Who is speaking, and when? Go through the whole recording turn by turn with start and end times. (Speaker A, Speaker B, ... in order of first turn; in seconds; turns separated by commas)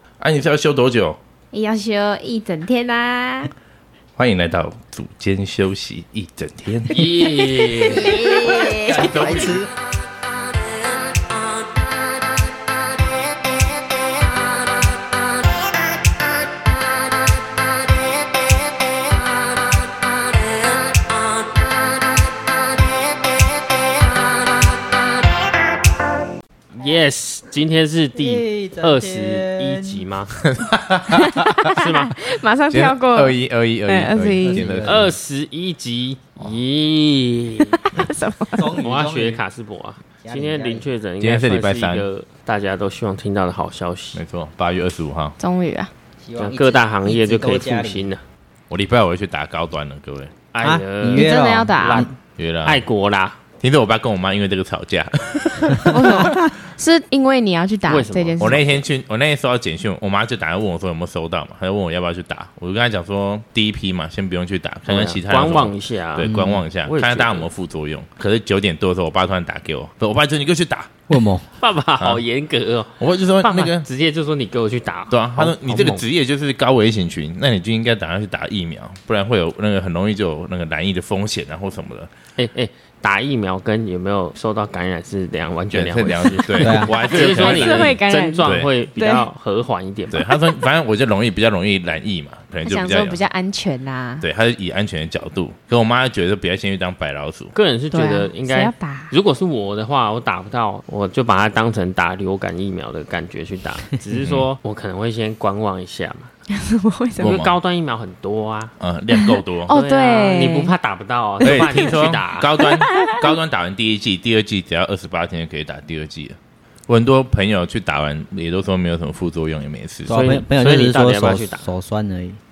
Speaker A: 0.2-1.2, Speaker B: 1.5-3.5, Speaker A: 4.2-7.0, Speaker C: 6.9-8.4, Speaker B: 7.8-9.3, Speaker D: 8.7-9.7, Speaker A: 8.9-9.6, Speaker C: 26.7-30.3, Speaker D: 28.2-30.0, Speaker A: 30.5-31.7, Speaker B: 31.2-34.6, Speaker C: 31.7-32.1, Speaker A: 32.7-35.1, Speaker D: 34.4-35.1, Speaker C: 34.8-37.7, Speaker B: 37.7-38.6, Speaker D: 38.5-39.4, Speaker C: 38.7-44.2, Speaker D: 40.2-40.9, Speaker A: 41.2-42.1, Speaker A: 44.1-45.4, Speaker B: 45.4-45.9, Speaker D: 46.2-48.1, Speaker C: 46.4-48.2, Speaker A: 48.7-50.3, Speaker C: 50.5-52.1, Speaker D: 50.6-52.1, Speaker B: 51.1-52.1, Speaker A: 52.4-52.8, Speaker C: 52.6-53.4, Speaker A: 53.6-56.1, Speaker B: 55.9-58.6, Speaker C: 57.8-58.8, Speaker A: 58.4-70.9, Speaker C: 64.9-67.5, Speaker D: 66.2-66.6, Speaker D: 71.1-71.5, Speaker C: 71.6-76.0, Speaker A: 73.0-73.8, Speaker A: 75.1-82.1, Speaker C: 82.4-90.2, Speaker A: 85.7-88.7, Speaker D: 86.6-86.9, Speaker B: 86.8-89.3, Speaker A: 90.1-93.2, Speaker B: 92.6-94.2, Speaker A: 94.2-97.5, Speaker C: 97.5-106.3, Speaker B: 97.9-99.1, Speaker A: 104.2-104.5, Speaker B: 106.5-107.4, Speaker C: 107.2-108.7, Speaker A: 107.2-107.5, Speaker A: 108.8-109.7, Speaker B: 109.1-110.7, Speaker C: 109.7-112.5, Speaker A: 111.4-116.4, Speaker B: 111.4-111.8, Speaker B: 112.7-113.1, Speaker A: 116.9-120.2, Speaker D: 120.0-122.4, Speaker C: 120.1-121.7